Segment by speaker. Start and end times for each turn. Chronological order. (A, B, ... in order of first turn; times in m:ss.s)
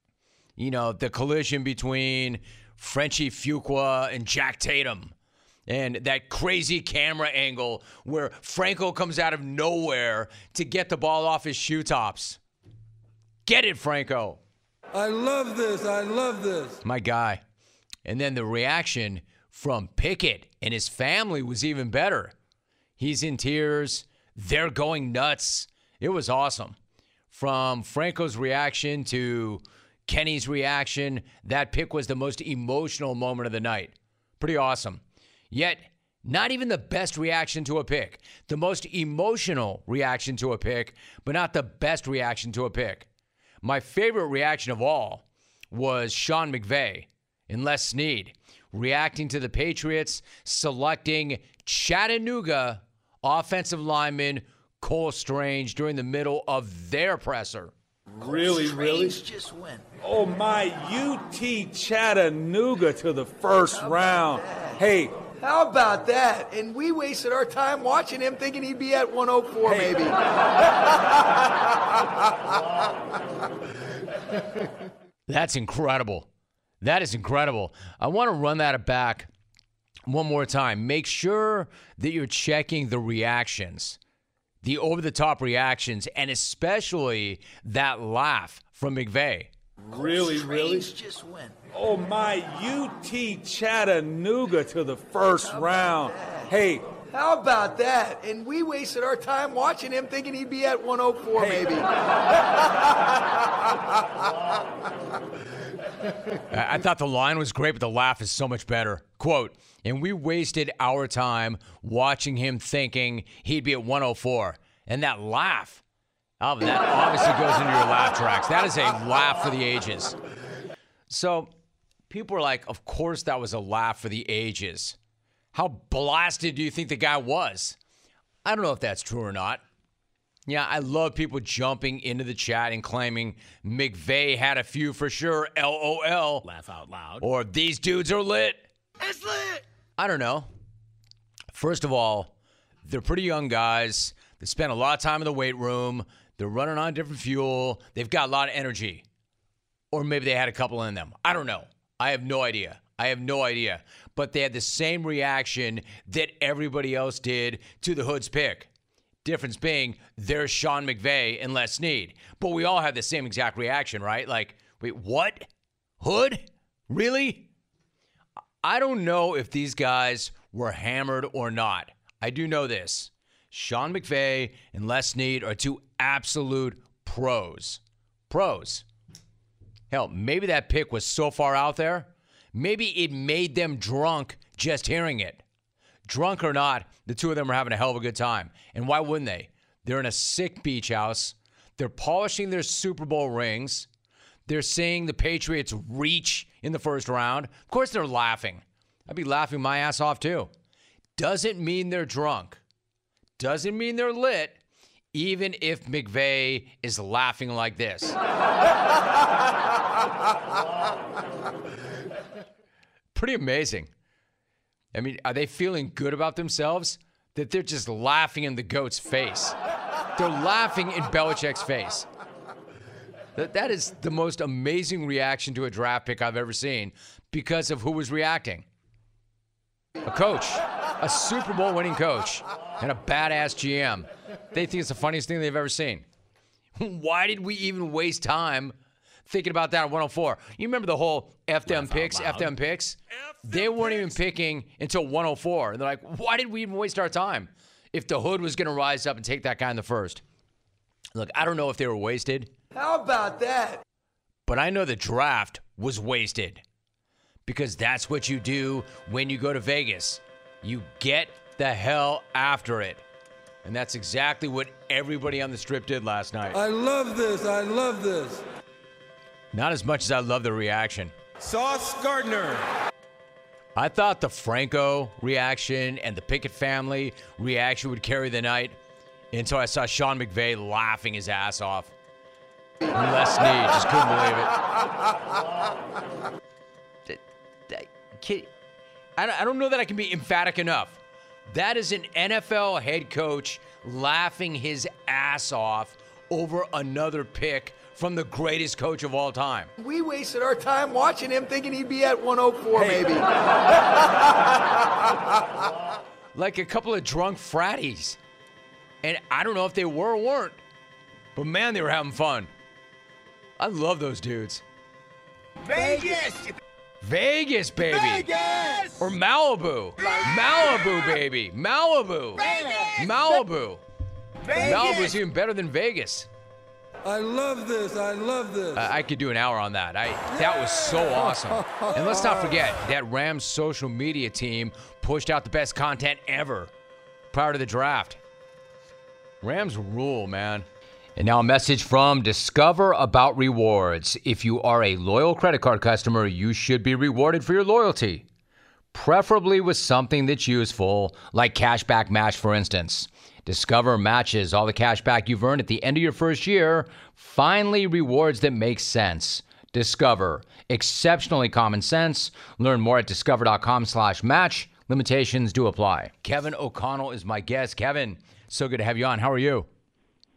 0:00.6-0:05.1 A
0:05.7-0:12.4 A
0:13.4-0:14.4 A
0:14.9-0:16.8 B
0:16.8-0:17.4 A
0:18.0-0:22.3 A
0:23.0-0:26.7 A
0:27.3-0:43.1 A
0:43.6-0:57.7 A
0:58.2-0:59.2 C
0:58.2-0:59.8 D
1:00.0-1:05.1 C
1:03.5-1:04.7 D
1:05.4-1:10.1 D
1:09.7-1:10.0 C
1:15.3-1:16.3 A
1:16.8-1:19.3 A
1:20.1-1:24.0 A
1:24.6-1:29.5 A
1:29.9-1:30.9 C
1:29.9-1:31.5 D
1:31.7-1:36.8 C
1:35.4-1:36.4 D
1:37.1-1:41.9 D
1:46.5-1:55.8 A
1:56.4-2:00.2 A
2:01.1-2:01.5 A
2:02.1-2:05.0 A
2:05.5-2:07.8 A
2:08.4-2:09.6 A
2:10.5-2:16.5 A
2:17.2-2:18.7 A
2:20.0-2:20.5 A
2:21.5-2:22.3 A
2:22.8-2:29.0 A
2:29.9-2:38.7 A
2:39.2-2:45.5 A
2:46.0-2:47.5 A
2:48.6-2:58.8 A
2:59.9-3:05.4 A
3:06.1-3:13.9 A
3:14.5-3:20.5 A
3:21.2-3:22.6 A
3:23.4-3:24.6 A
3:25.1-3:28.2 A
3:33.1-3:33.9 A
3:34.9-3:39.6 A
3:40.2-3:42.1 A
3:43.4-3:48.6 A
3:50.0-3:56.0 A
3:56.8-3:58.7 A
3:59.3-4:10.2 A
4:11.1-4:12.5 A
4:12.7-4:13.8 D
4:14.5-4:16.6 A
4:17.5-4:23.0 A
4:23.6-4:26.6 A
4:26.5-4:28.4 B
4:29.5-4:31.1 A
4:31.4-4:32.4 C
4:33.8-4:38.8 A
4:39.3-4:41.9 A
4:42.9-4:44.6 A
4:47.1-4:48.5 A
4:49.2-4:59.7 A
4:59.8-5:03.2 D
5:06.3-5:08.2 A
5:09.0-5:10.6 A
5:11.3-5:12.5 A
5:13.6-5:14.6 A
5:17.0-5:18.3 A
5:19.0-5:23.8 A
5:24.6-5:26.3 A
5:27.0-5:28.8 B
5:28.8-5:36.7 A
5:37.3-5:38.2 A
5:39.4-5:40.6 A
5:41.2-5:48.2 A
5:48.9-6:09.7 A